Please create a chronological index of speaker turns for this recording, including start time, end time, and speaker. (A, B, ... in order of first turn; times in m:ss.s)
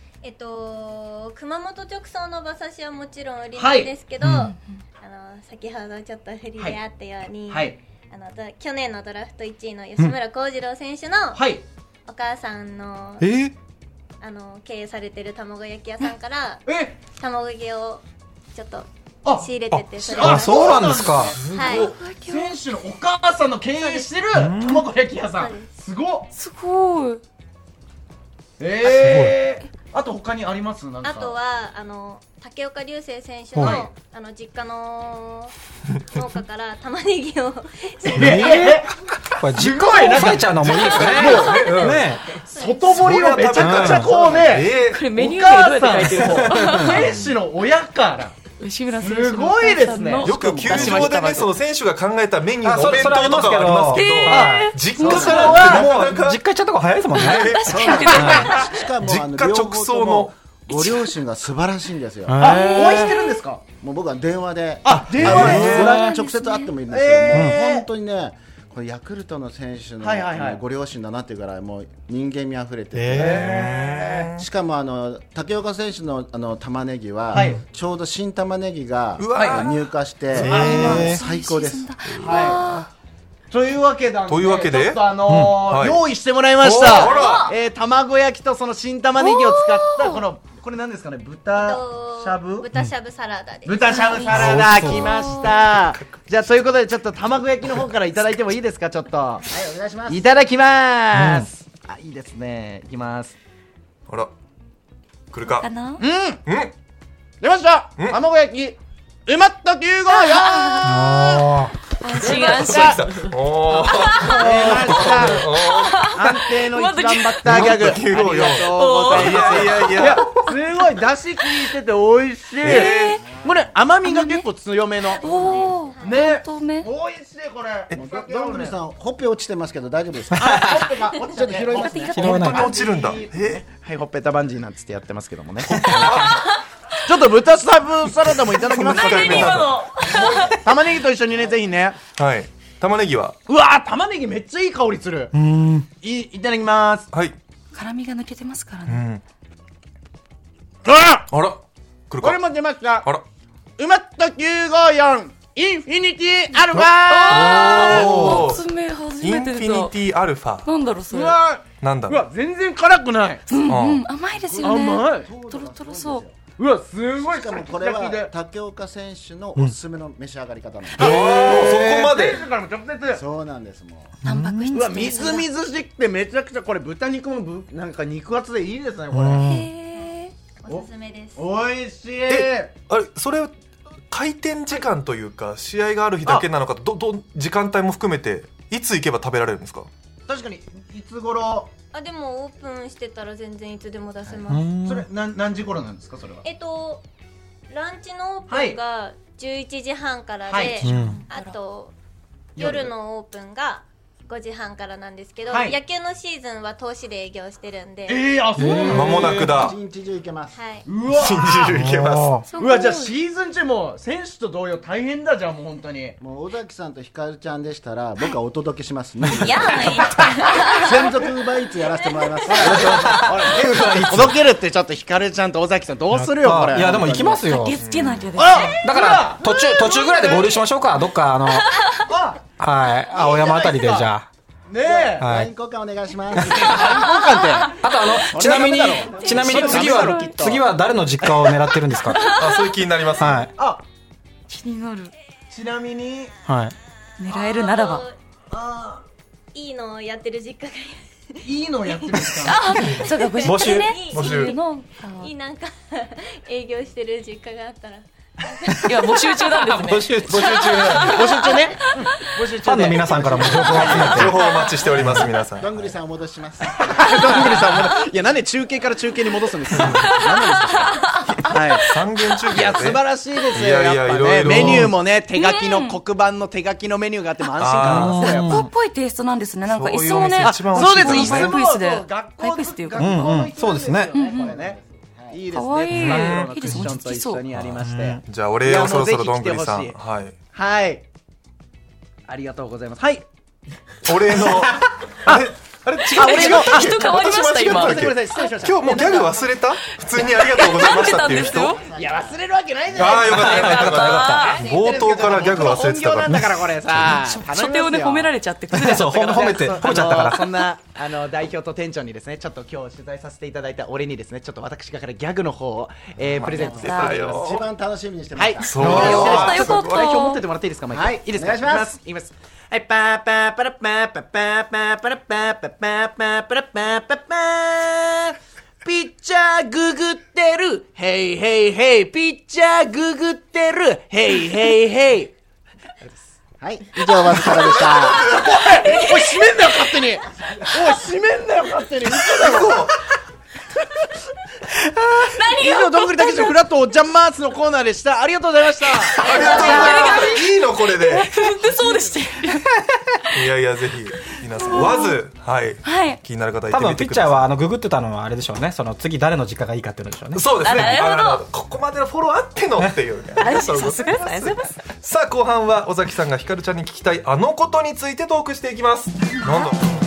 0:00.2-0:11.4 A
0:03.5-0:03.9 B
0:04.2-0:04.5 C
0:07.5-0:07.8 B
0:11.3-0:11.6 B
0:12.0-0:13.3 A
0:13.2-0:13.5 C
0:14.2-0:16.6 A
0:16.6-0:17.0 B
0:17.2-0:18.0 A
0:18.5-0:21.9 A
0:19.2-0:26.3 B
0:20.1-0:21.4 C
0:21.4-0:21.9 D
0:21.6-0:22.6 E
0:24.3-0:24.8 C
0:25.4-0:25.7 A
0:26.3-0:27.2 E
0:28.6-0:31.4 B
0:28.8-0:29.3 C
0:31.0-0:35.5 A
0:33.5-0:33.9 C
0:36.1-0:38.8 A
0:38.1-0:41.6 B
0:38.1-0:38.8 C
0:39.4-0:42.2 C
0:40.6-0:42.0 D
0:41.1-0:43.3 A
0:42.5-0:48.4 B
0:42.9-0:45.1 D
0:43.5-0:44.2 C
0:44.2-0:44.5 F
0:44.7-0:47.1 E
0:46.2-0:47.2 C
0:48.5-0:51.5 E
0:49.0-0:50.4 B
0:50.2-0:56.4 D
0:52.6-0:54.7 C
0:53.9-0:55.9 E
0:54.3-0:54.6 B
0:55.0-0:55.8 F
0:55.4-0:55.9 B
0:55.6-0:57.5 C
0:57.1-0:58.7 E
0:57.2-0:57.9 D
0:57.6-1:02.8 F
0:58.1-0:58.7 B
0:58.1-0:58.5 C
0:59.0-1:00.3 D
1:02.2-1:03.1 C
1:02.4-1:03.6 B
1:02.6-1:03.1 E
1:03.8-1:13.6 F
1:04.8-1:06.1 B
1:05.1-1:06.0 D
1:05.2-1:05.8 C
1:05.6-1:06.7 E
1:06.8-1:07.9 B
1:07.3-1:07.6 C
1:10.0-1:10.6 B
1:12.9-1:13.5 C
1:13.1-1:14.3 B
1:13.2-1:14.4 D
1:14.4-1:22.3 F
1:17.3-1:17.6 C
1:17.3-1:17.6 B
1:19.2-1:20.9 D
1:19.3-1:19.7 B
1:20.4-1:21.2 B
1:20.4-1:22.9 E
1:20.5-1:21.2 C
1:22.0-1:22.4 D
1:22.3-1:22.8 B
1:23.5-1:32.7 B
1:24.3-1:25.1 D
1:25.3-1:25.6 C
1:25.6-1:26.0 D
1:26.6-1:27.5 D
1:26.8-1:27.5 E
1:29.2-1:30.2 E
1:31.5-1:34.0 A
1:33.6-1:39.4 B
1:33.8-1:35.5 E
1:34.3-1:35.2 C
1:35.2-1:35.6 F
1:35.7-1:36.2 D
1:39.4-1:40.3 F
1:40.1-1:43.3 B
1:41.1-1:41.5 C
1:45.3-1:45.7 D
1:45.4-1:46.0 E
1:46.0-1:46.4 B
1:46.4-1:46.7 D
1:47.4-1:51.4 B
1:50.1-1:51.0 E
1:50.8-1:51.7 C
1:52.0-1:57.8 E
1:52.2-1:53.1 B
1:52.2-1:56.1 D
1:52.3-1:52.6 F
1:53.7-2:08.8 B
1:57.4-2:00.4 D
1:58.6-2:00.3 E
2:02.6-2:03.3 D
2:02.6-2:03.3 E
2:03.1-2:03.8 F
2:04.0-2:04.4 E
2:05.1-2:06.9 E
2:05.1-2:06.2 A
2:07.9-2:12.5 F
2:10.3-2:16.3 B
2:11.7-2:12.7 E
2:12.1-2:12.7 C
2:12.4-2:13.6 D
2:15.8-2:16.4 D
2:17.0-2:22.0 B
2:18.5-2:20.7 D
2:18.6-2:20.8 E
2:22.0-2:23.4 D
2:23.5-2:25.3 B
2:25.3-2:25.9 C
2:26.0-2:27.1 B
2:27.1-2:27.4 D
2:27.7-2:29.0 E
2:28.9-2:29.2 D
2:30.8-2:31.3 B
2:31.3-2:32.4 D
2:32.2-2:33.1 B
2:33.8-2:38.3 B
2:36.7-2:38.6 D
2:37.1-2:39.9 E
2:37.3-2:38.5 C
2:39.2-2:40.7 D
2:40.6-2:41.4 E
2:41.1-2:43.6 B
2:41.7-2:42.2 D
2:43.5-2:46.2 E
2:43.6-2:44.0 D
2:44.2-2:46.5 F
2:44.6-2:45.3 B
2:46.6-2:48.3 B
2:47.2-2:51.9 F
2:51.0-2:52.4 D
2:51.0-2:53.2 B
2:51.2-2:51.7 C
2:53.1-2:54.1 F
2:54.2-2:54.9 C
2:54.2-2:55.5 E
2:54.7-2:59.5 B
2:59.1-2:59.7 C
2:59.4-3:00.3 E
2:59.9-3:01.4 A
3:00.7-3:02.7 B
3:02.3-3:03.5 D
3:04.1-3:09.9 D
3:10.3-3:11.7 B
3:11.9-3:14.7 A
3:14.2-3:16.4 B
3:14.5-3:15.0 C
3:16.4-3:17.0 A
3:17.7-3:21.9 A
3:18.5-3:18.8 B
3:20.5-3:20.8 B
3:20.8-3:21.5 E
3:20.8-3:21.2 C
3:22.6-3:22.9 B
3:22.6-3:28.2 A
3:25.5-3:25.8 B
3:28.1-3:29.7 B
3:28.6-3:29.1 C
3:28.8-3:29.7 D
3:29.0-3:30.7 F
3:30.5-3:30.8 A
3:30.8-3:31.8 B
3:31.1-3:32.4 D
3:31.7-3:32.4 C
3:32.4-3:33.1 E
3:32.5-3:36.1 B
3:36.2-3:40.0 F
3:39.2-3:41.3 A
3:39.7-3:40.7 B
3:40.8-3:43.6 F
3:41.8-3:43.1 A
3:42.5-3:47.2 B
3:42.6-3:44.4 C
3:46.1-3:47.8 C
3:46.8-3:47.4 F
3:47.4-3:48.8 E
3:47.8-3:48.3 D
3:48.3-3:50.6 B
3:48.8-3:51.8 C
3:52.0-3:52.5 B
3:52.6-3:54.3 C
3:53.1-3:54.1 B
3:54.7-3:55.4 B
3:54.8-3:57.3 F
3:55.2-3:55.5 C
3:56.3-3:56.9 C
3:56.4-3:57.8 B
3:57.2-3:58.2 E
3:57.6-4:02.2 C
3:58.3-4:00.6 B
3:59.2-4:00.4 E
4:01.2-4:01.7 B
4:02.0-4:02.7 E
4:02.3-4:03.5 D
4:03.2-4:03.5 C
4:03.5-4:03.8 B
4:04.5-4:05.1 E
4:05.5-4:06.3 B
4:06.4-4:06.8 C
4:07.2-4:08.0 E
4:07.3-4:08.1 A
4:08.5-4:09.0 B
4:09.5-4:14.6 A
4:11.4-4:12.8 B
4:12.4-4:15.3 E
4:13.4-4:13.9 C
4:14.1-4:14.5 D
4:15.1-4:19.6 A
4:18.7-4:19.0 C
4:18.8-4:21.7 E
4:19.8-4:21.2 C
4:20.3-4:21.3 D
4:21.0-4:24.7 B
4:22.6-4:24.4 C
4:23.4-4:25.8 D
4:24.9-4:28.0 F
4:25.0-4:25.3 C
4:26.7-4:31.9 B
4:29.8-4:31.3 E
4:29.8-4:30.7 F
4:31.6-4:35.0 D
4:32.4-4:38.6 B
4:34.5-4:34.9 C
4:35.3-4:36.0 E
4:37.6-4:38.4 D
4:37.8-4:38.7 C
4:38.3-4:43.3 E
4:39.6-4:41.6 D
4:40.4-4:44.8 B
4:43.0-4:44.2 C
4:44.1-4:45.6 F
4:44.2-4:44.5 E
4:45.3-4:50.0 B
4:45.5-4:47.4 E
4:45.9-4:46.6 D
4:47.7-4:48.2 C
4:48.2-4:50.4 D
4:50.5-4:51.0 B
4:52.3-4:53.2 B
4:54.0-5:01.9 D
4:54.3-4:54.7 B
4:56.0-4:59.3 B
4:56.1-5:01.9 E
5:00.8-5:03.2 F
5:01.8-5:08.3 B
5:02.9-5:06.3 D
5:03.3-5:04.6 E
5:06.2-5:07.1 C
5:06.9-5:09.1 E
5:08.7-5:10.5 C
5:08.8-5:17.5 B
5:16.3-5:17.7 D
5:16.4-5:17.2 E
5:16.4-5:20.0 F
5:18.4-5:35.3 B
5:18.6-5:20.2 D
5:18.8-5:19.2 C
5:19.0-5:20.4 E
5:20.9-5:22.0 F
5:36.6-5:38.3 F
5:37.3-5:42.9 B
5:37.4-5:37.9 E
5:38.8-5:39.8 E
5:40.4-5:41.0 F
5:42.2-5:42.9 D
5:44.7-5:50.0 B
5:45.2-5:46.6 E
5:49.0-5:52.6 E
5:49.2-5:51.5 D
5:49.3-5:50.2 F
5:51.7-5:52.1 B
5:53.3-5:57.5 D
5:54.4-5:55.2 E
5:55.8-5:56.2 E
5:56.7-6:00.4 C
6:00.3-6:09.8 D
6:00.6-6:01.4 E
6:03.4-6:04.8 E